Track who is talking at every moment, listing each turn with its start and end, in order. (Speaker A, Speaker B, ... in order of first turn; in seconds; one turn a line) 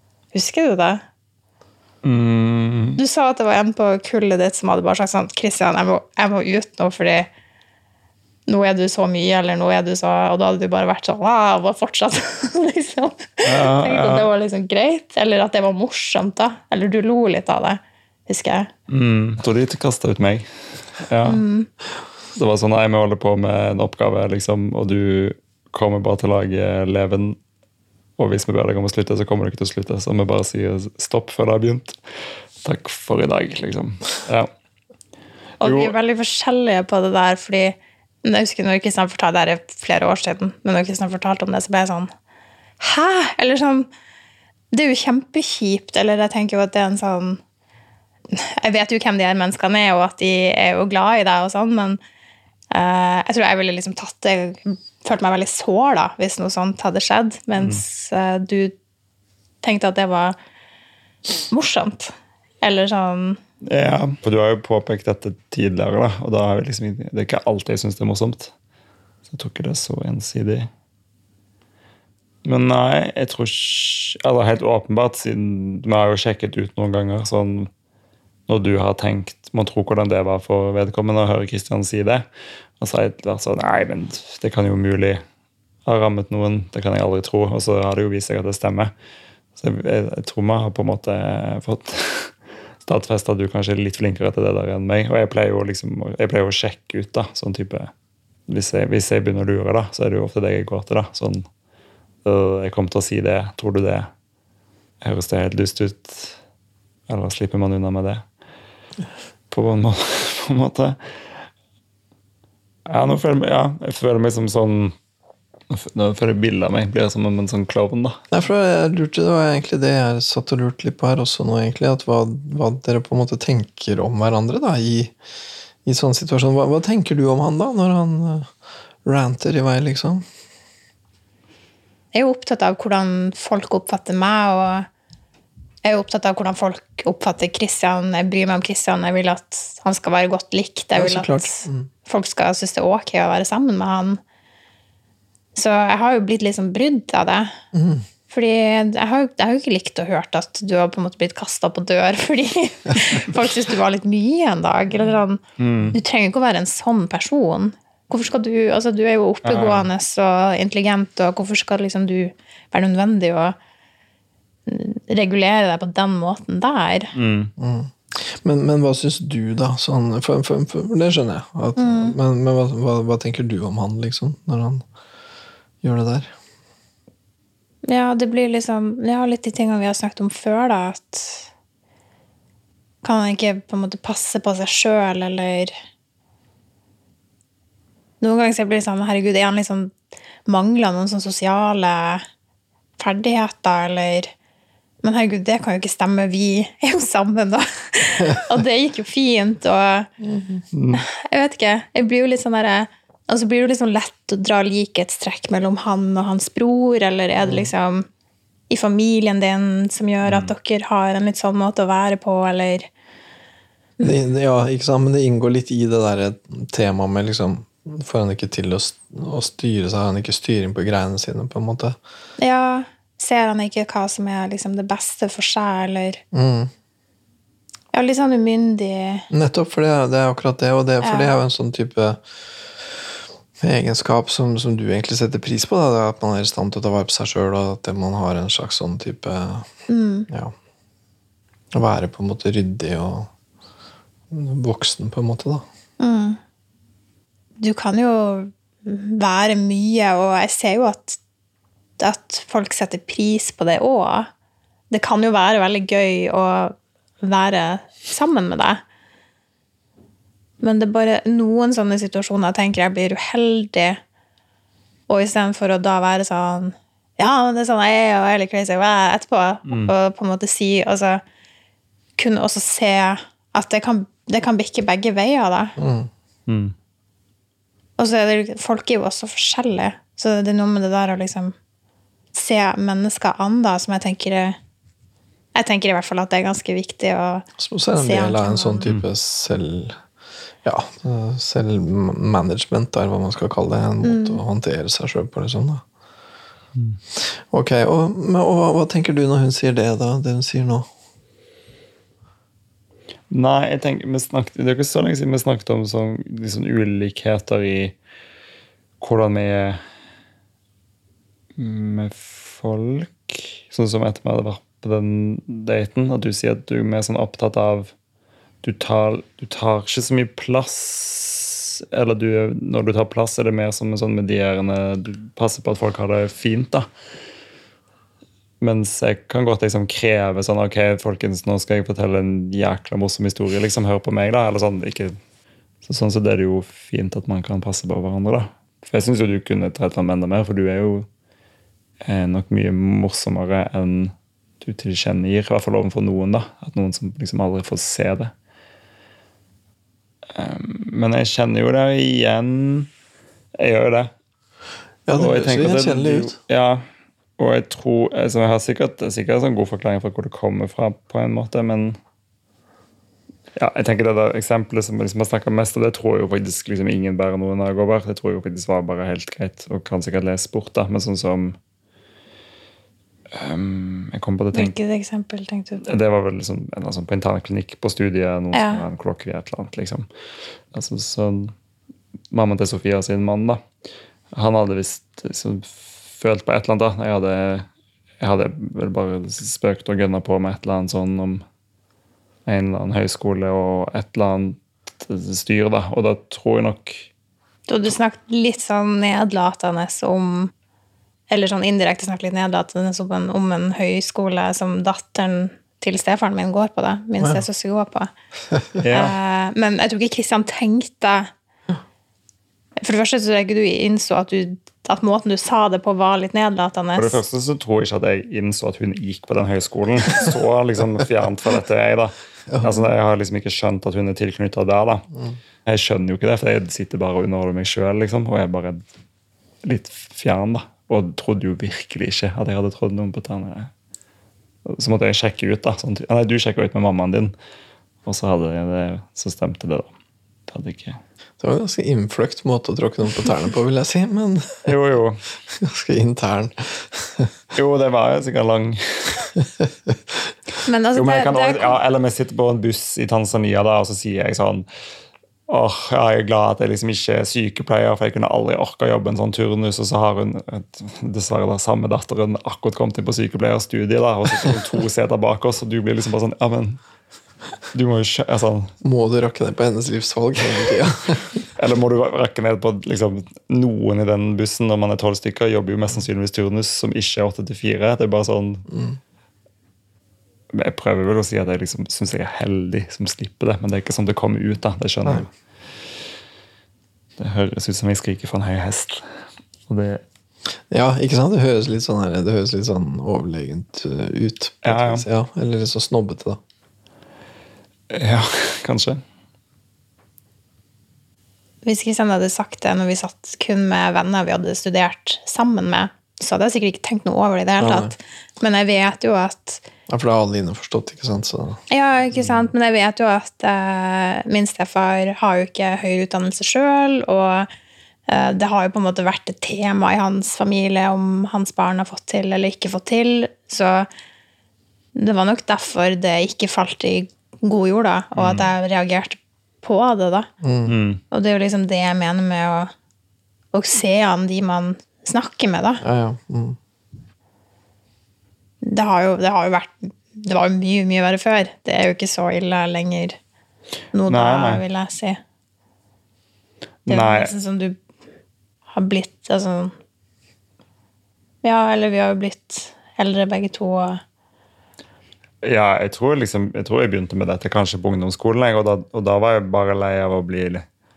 Speaker A: 0.3-1.0
Speaker B: 2.0-3.0
Speaker A: 3.0-7.3
Speaker A: 8.5-18.7
Speaker B: 13.4-14.3
Speaker B: 18.9-20.5
Speaker B: 21.0-21.4
Speaker A: 21.2-21.7
Speaker B: 22.3-27.4
Speaker B: 28.2-32.0
Speaker B: 32.6-34.5
Speaker B: 35.6-35.9
Speaker A: 35.6-42.1
Speaker A: 42.8-43.9
Speaker A: 44.7-47.4
Speaker A: 48.3-52.0
Speaker A: 52.7-58.7
Speaker A: 59.6-60.4
Speaker A: 61.5-63.4
Speaker B: 63.6-68.5
Speaker B: 69.2-70.7
Speaker B: 72.4-77.7
Speaker B: 78.5-82.3
Speaker B: 82.8-85.2
Speaker B: 85.8-88.9
Speaker B: 89.6-97.9
Speaker B: 98.5-101.5
Speaker B: 102.2-104.1
Speaker B: 105.0-106.4
Speaker B: 107.1-108.2
Speaker B: 109.5-111.4
Speaker B: 112.8-114.9
Speaker B: 115.7-118.2
Speaker C: 118.3-125.1
Speaker C: 125.8-128.5
Speaker C: 129.0-130.2
Speaker A: 132.1-134.9
Speaker A: 135.8-144.2
Speaker C: 140.9-141.9
Speaker A: 145.5-147.6
Speaker C: 147.7-148.1
Speaker A: 148.3-155.4
Speaker B: 155.6-156.0
Speaker A: 155.9-163.6
Speaker B: 159.4-159.9
Speaker A: 164.7-167.1
Speaker B: 167.1-167.5
Speaker C: 167.6-174.8
Speaker A: 171.8-172.2
Speaker C: 175.8-176.3
Speaker A: 177.8-181.5
Speaker A: 183.0-185.7
Speaker A: 188.2-189.9
Speaker A: 190.4-192.2
Speaker A: 193.0-194.3
Speaker A: 195.0-200.1
Speaker C: 200.2-200.6
Speaker B: 200.7-201.0
Speaker A: 200.9-208.1
Speaker C: 207.4-207.7
Speaker A: 208.7-212.9
Speaker B: 210.2-210.5
Speaker C: 214.0-222.0
Speaker A: 222.4-226.2
Speaker C: 226.3-226.7
Speaker A: 227.9-229.3
Speaker C: 229.3-232.2
Speaker A: 231.0-231.4
Speaker C: 233.6-239.7
Speaker A: 239.9-240.3
Speaker C: 240.3-240.5
Speaker C: 241.7-243.3
Speaker C: 244.3-245.7
Speaker A: 246.0-246.4
Speaker A: 247.6-251.2
Speaker A: 252.0-254.3
Speaker A: 254.9-258.8
Speaker A: 260.6-264.0
Speaker A: 265.1-271.2
Speaker B: 269.7-269.9
Speaker A: 272.2-275.8
Speaker C: 275.8-276.1
Speaker B: 276.5-276.7
Speaker A: 278.0-281.5
Speaker A: 282.3-284.6
Speaker A: 285.5-288.9
Speaker C: 287.6-290.0
Speaker C: 290.6-295.8
Speaker A: 294.0-294.4
Speaker C: 297.2-300.9
Speaker B: 303.3-308.0
Speaker B: 309.0-309.8
Speaker B: 311.6-317.9
Speaker B: 318.6-326.9
Speaker B: 328.6-335.1
Speaker B: 335.8-341.1
Speaker B: 342.0-348.3
Speaker B: 350.3-352.9
Speaker B: 353.6-354.1
Speaker C: 355.1-356.4
Speaker B: 355.1-356.8
Speaker B: 357.4-362.0
Speaker B: 363.6-371.6
Speaker B: 373.3-374.7
Speaker A: 374.5-375.9
Speaker B: 375.8-380.1
Speaker A: 378.5-378.8
Speaker B: 380.7-381.5
Speaker B: 382.3-383.6
Speaker B: 384.3-387.7
Speaker B: 388.2-391.4
Speaker B: 392.4-397.1
Speaker A: 397.7-400.5
Speaker A: 401.3-408.1
Speaker C: 408.5-408.9
Speaker B: 408.8-409.1
Speaker A: 408.8-411.3
Speaker A: 412.8-417.2
Speaker B: 416.9-425.0
Speaker C: 422.5-422.7
Speaker B: 425.6-428.8
Speaker B: 429.6-433.7
Speaker B: 434.6-437.3
Speaker B: 438.0-439.9
Speaker B: 440.5-441.0
Speaker C: 441.4-444.6
Speaker B: 444.6-445.2
Speaker C: 445.5-447.3
Speaker B: 447.5-449.3
Speaker C: 449.9-450.1
Speaker A: 450.6-451.8
Speaker B: 450.9-454.6
Speaker B: 455.5-466.8
Speaker B: 467.7-468.7
Speaker C: 468.8-471.4
Speaker B: 471.6-478.6
Speaker C: 478.7-479.0
Speaker B: 480.5-485.3
Speaker B: 487.2-489.1
Speaker B: 489.7-490.0
Speaker C: 490.7-496.4
Speaker B: 494.6-495.0
Speaker B: 497.9-499.0
Speaker A: 501.6-509.6
Speaker C: 507.6-507.9
Speaker C: 509.9-511.6
Speaker A: 511.7-517.5
Speaker A: 518.1-523.9
Speaker A: 525.0-530.3
Speaker B: 528.1-528.5
Speaker C: 530.4-530.7
Speaker B: 530.7-531.0
Speaker A: 531.1-532.7
Speaker A: 533.5-535.8
Speaker C: 535.8-536.6
Speaker A: 538.6-543.2
Speaker A: 543.9-545.2
Speaker B: 544.1-544.6
Speaker B: 546.9-547.3
Speaker A: 546.9-547.8
Speaker A: 548.7-549.7
Speaker A: 551.4-554.0
Speaker B: 555.4-560.6